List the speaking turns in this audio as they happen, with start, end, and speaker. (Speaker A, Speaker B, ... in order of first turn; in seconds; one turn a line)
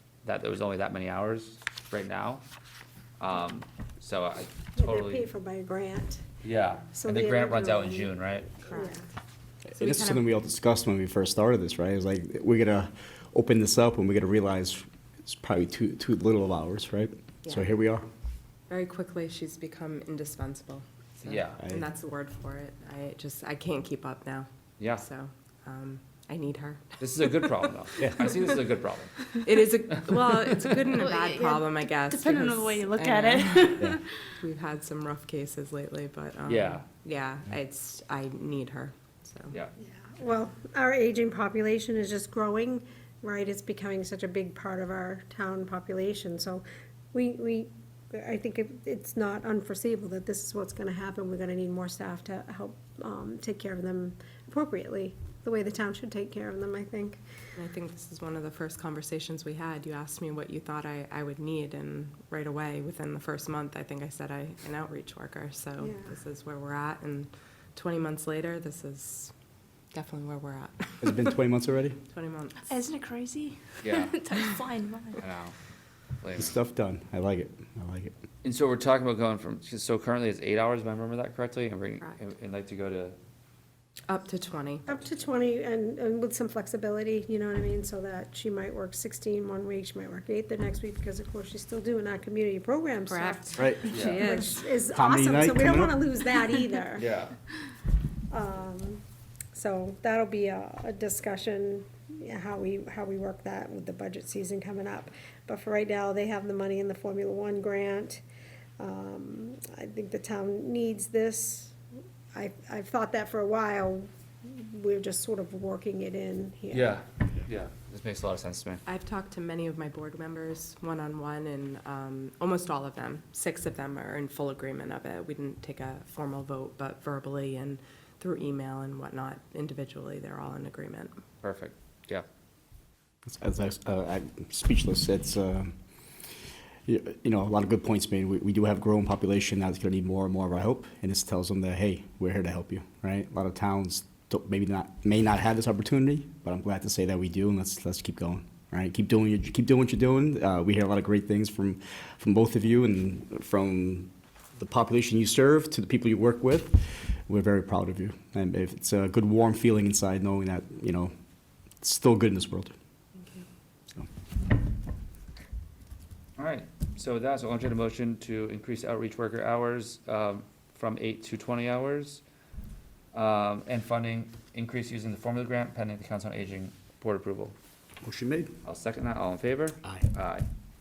Speaker A: 0.2-2.4
Speaker A: 3.2-5.3
Speaker B: 4.8-6.2
Speaker A: 6.4-8.5
Speaker B: 6.9-9.1
Speaker C: 8.6-9.0
Speaker D: 9.7-18.1
Speaker C: 9.7-10.2
Speaker C: 18.7-28.6
Speaker A: 21.2-21.6
Speaker A: 24.8-25.0
Speaker A: 27.0-29.4
Speaker C: 29.3-39.5
Speaker E: 31.0-34.0
Speaker A: 36.5-36.8
Speaker B: 39.8-57.2
Speaker C: 57.5-69.3
Speaker B: 65.8-66.1
Speaker C: 69.9-71.3
Speaker D: 71.0-72.0
Speaker C: 72.1-72.7
Speaker E: 72.7-75.2
Speaker A: 73.8-74.2
Speaker A: 75.2-75.5
Speaker A: 76.2-76.5
Speaker D: 76.3-78.1
Speaker A: 78.4-83.2
Speaker C: 84.1-84.9
Speaker B: 84.9-97.1
Speaker C: 93.1-94.6
Speaker D: 93.6-93.9
Speaker A: 93.9-94.2
Speaker D: 94.9-96.1
Speaker A: 97.0-97.4
Speaker B: 98.3-99.0
Speaker B: 99.5-108.2
Speaker B: 108.8-111.8
Speaker B: 112.3-117.0
Speaker A: 116.7-118.8
Speaker C: 118.8-131.2
Speaker A: 131.4-132.2
Speaker D: 133.2-135.7
Speaker D: 136.8-161.1
Speaker D: 161.8-162.7
Speaker C: 163.2-163.4
Speaker A: 166.4-172.2
Speaker A: 173.1-177.5
Speaker D: 178.0-178.5
Speaker A: 178.6-180.4
Speaker D: 179.8-180.1